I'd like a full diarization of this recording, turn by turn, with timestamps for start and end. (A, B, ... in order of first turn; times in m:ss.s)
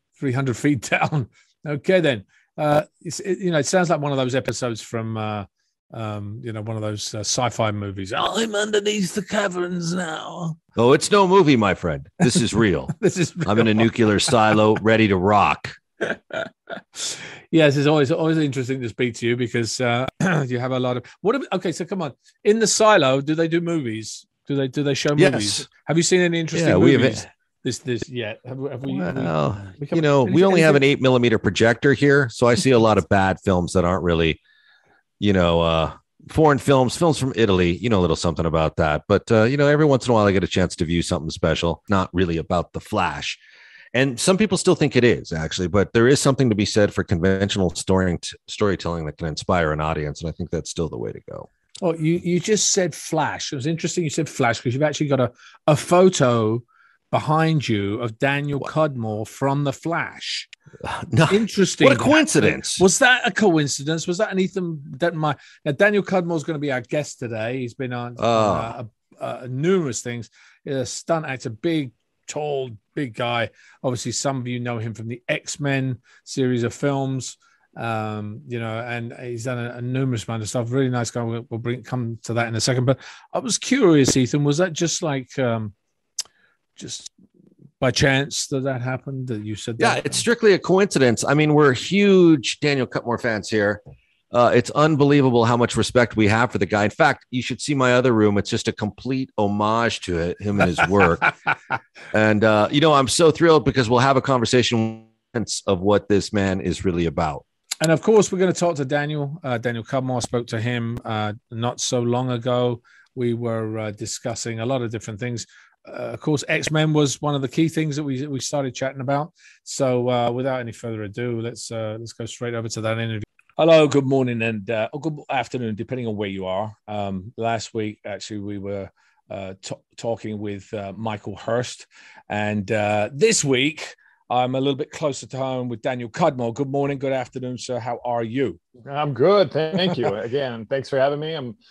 0:00.2-0:10.6 A
0:10.8-0:15.7 B
0:13.0-0:13.8 A
0:16.0-0:16.5 A
0:17.0-0:30.8 A
0:25.2-0:25.6 B
0:26.5-0:27.2 B
0:28.9-0:34.4 B
0:35.2-0:43.4 B
0:43.9-0:51.5 B
0:51.8-1:00.5 A
1:00.8-1:02.8 B
1:01.3-1:25.7 A
1:08.2-1:08.7 B
1:26.8-1:27.1 A
1:27.8-1:30.2 A
1:29.8-1:41.3 B
1:42.1-1:47.4 B
1:47.8-2:18.6 A
2:18.8-2:21.6 C